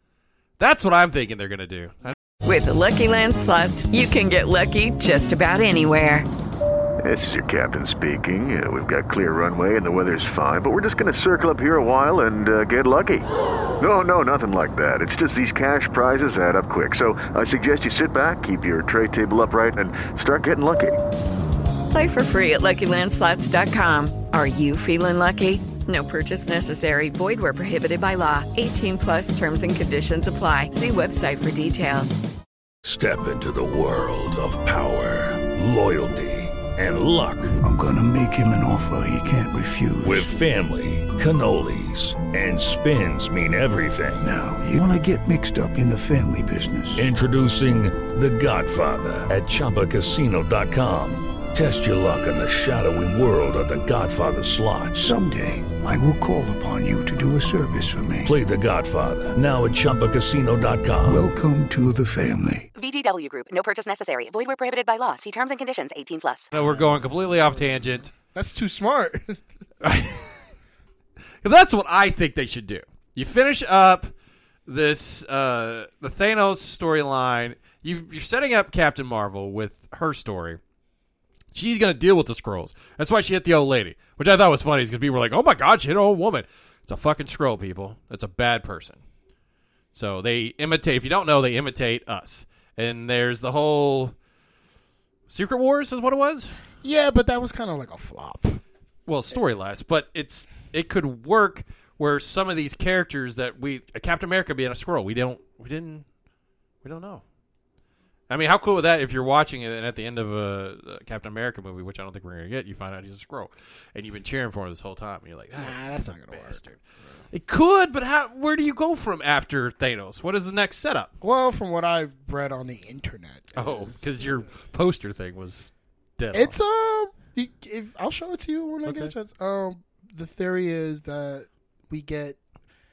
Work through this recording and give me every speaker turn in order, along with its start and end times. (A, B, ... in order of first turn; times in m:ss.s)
0:00.6-0:02.2 A
0:02.4-0:06.3 B
0:07.0-0:13.3 C
0:13.8-0:21.0 C
0:21.9-0:32.2 B
0:32.8-0:37.6 D
0:37.6-0:40.3 E
0:40.0-0:44.3 D
0:44.2-0:47.1 E
0:47.0-0:55.2 D
0:55.0-0:58.3 E
0:58.2-1:01.3 D
1:01.0-1:02.7 E
1:02.7-1:06.5 F
1:06.5-1:08.1 A
1:08.2-1:09.4 G
1:09.8-1:10.4 A
1:11.4-1:14.1 A
1:14.7-1:20.6 A
1:21.5-1:29.0 A
1:29.9-1:34.1 A
1:35.3-1:36.5 A
1:36.8-1:38.6 G
1:39.1-1:46.0 A
1:46.8-1:47.2 A
1:48.3-1:56.8 A
1:55.6-1:56.6 G
1:57.3-2:01.1 A
2:01.2-2:04.4 G
2:03.5-2:06.5 A
2:06.3-2:12.4 G
2:08.8-2:09.1 A